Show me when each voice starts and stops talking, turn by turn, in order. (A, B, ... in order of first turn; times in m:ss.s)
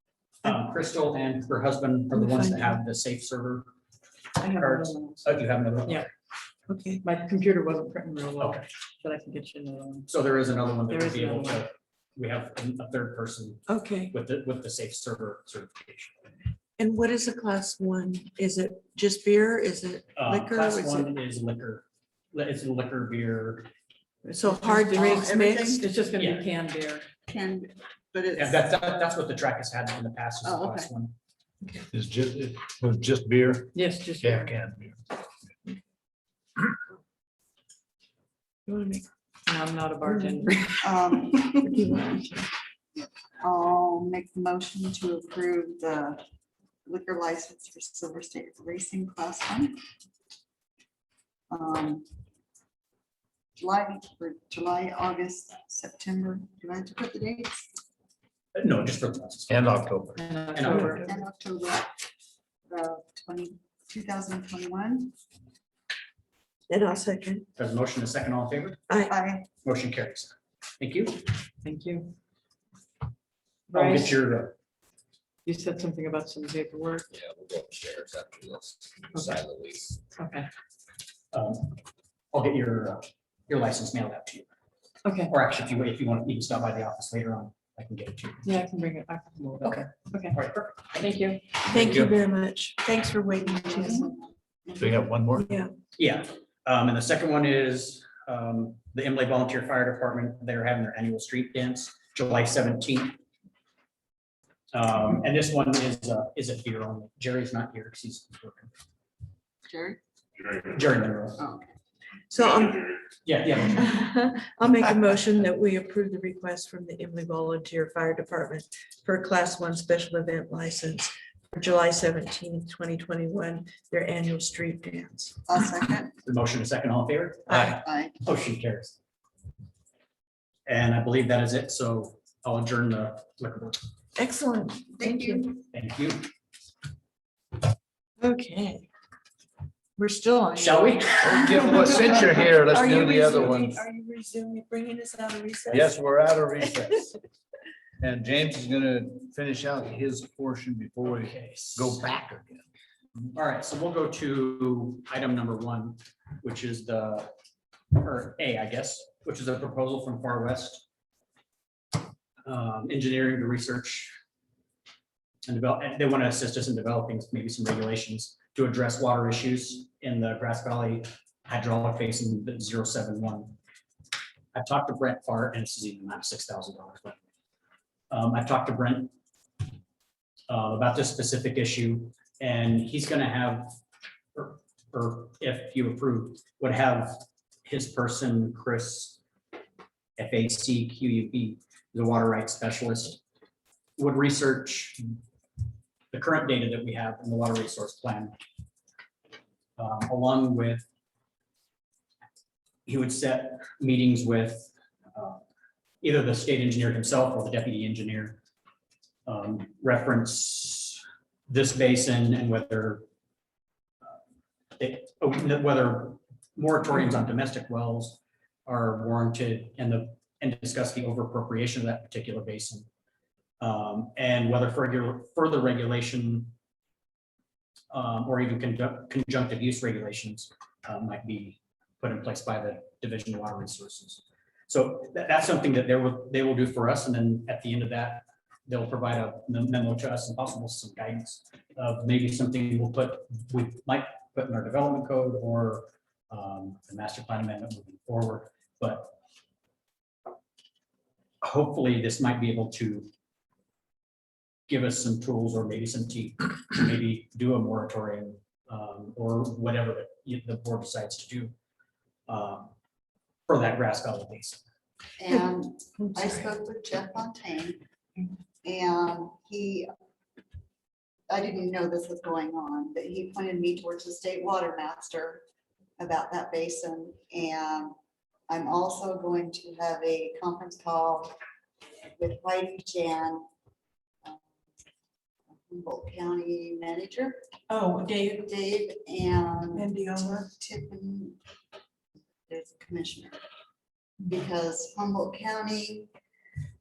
0:00.4-0:03.7 A
0:02.1-0:02.8 B
0:04.4-0:06.1 C
0:04.6-0:06.1 A
0:06.7-0:07.0 B
0:07.0-0:10.1 C
0:08.4-0:08.7 A
0:10.1-0:16.3 A
0:10.9-0:11.6 C
0:13.7-0:14.1 B
0:16.8-0:21.1 B
0:20.2-0:23.7 A
0:24.2-0:25.8 B
0:24.4-0:25.8 D
0:25.8-0:27.1 C
0:26.2-0:26.5 A
0:27.3-0:29.0 D
0:28.3-0:31.1 A
0:30.4-0:30.9 D
0:31.9-0:35.0 E
0:33.7-0:34.6 C
0:38.7-0:39.0 B
0:39.4-0:40.8 C
0:40.1-0:40.5 B
0:40.8-0:42.0 D
0:41.5-0:42.2 B
0:43.4-0:46.2 D
0:46.8-0:49.8 D
0:51.5-0:52.0 D
0:53.6-0:57.7 D
0:58.6-0:59.8 A
0:59.5-1:00.3 E
1:00.2-1:01.1 C
1:00.6-1:01.0 A
1:01.0-1:01.9 D
1:02.7-1:05.1 D
1:06.7-1:07.5 B
1:07.6-1:08.8 A
1:08.9-1:09.1 B
1:09.0-1:09.5 D
1:09.6-1:11.3 A
1:11.6-1:12.1 C
1:13.7-1:14.1 C
1:13.7-1:14.6 A
1:15.4-1:17.1 C
1:17.1-1:20.0 F
1:19.1-1:19.4 C
1:20.1-1:20.5 C
1:21.3-1:21.8 A
1:22.3-1:24.5 A
1:25.0-1:25.3 C
1:25.3-1:28.4 A
1:28.4-1:30.4 C
1:29.6-1:30.9 A
1:30.9-1:31.4 C
1:31.7-1:34.1 B
1:31.8-1:32.1 E
1:33.4-1:35.1 D
1:34.8-1:35.5 E
1:35.4-1:35.7 B
1:36.0-1:43.2 A
1:44.7-1:48.7 A
1:49.7-1:50.0 D
1:50.7-1:51.4 A
1:51.4-1:51.7 D
1:52.3-1:52.9 B
1:53.2-1:54.0 A
1:53.8-2:05.4 B
2:05.5-2:06.2 D
2:06.3-2:09.0 A
2:07.5-2:07.8 B
2:07.8-2:08.2 D
2:10.7-2:13.8 A
2:14.2-2:15.5 B
2:15.0-2:15.6 D
2:15.7-2:16.3 A
2:18.2-2:18.9 B
2:20.0-2:26.0 B
2:20.6-2:21.6 A
2:21.2-2:23.8 E
2:25.7-2:27.1 E
2:28.0-2:32.6 E
2:31.1-2:32.0 A
2:33.3-2:37.3 A
2:37.9-2:40.8 A
2:42.4-2:44.1 A
2:45.5-2:53.6 A
2:54.5-2:57.2 A
2:58.1-2:59.1 A
3:00.5-3:03.7 A
3:04.3-3:09.2 A
3:10.2-3:13.2 A
3:14.0-3:15.2 A
3:16.1-3:18.4 A
3:19.8-3:20.8 A
3:22.9-3:25.4 A
3:26.0-3:28.4 A
3:29.3-3:33.0 A
3:34.8-3:42.9 A
3:43.6-3:46.5 A
3:47.9-4:09.2 A
4:11.4-4:13.1 A
4:14.7-4:21.5 A
4:22.3-4:22.7 A
4:23.5-4:24.6 A
4:25.2-4:27.8 D
4:26.0-4:26.3 B
4:28.6-4:29.9 D
4:31.3-4:35.4 D
4:36.0-4:37.9 D
4:38.5-4:41.3 D
4:42.2-4:43.4 D
4:45.7-4:47.4 D
4:47.7-4:48.4 B
4:48.3-4:49.9 D
4:49.7-4:50.5 B
4:50.5-4:51.4 D
4:52.5-4:53.4 D
4:54.2-4:56.1 D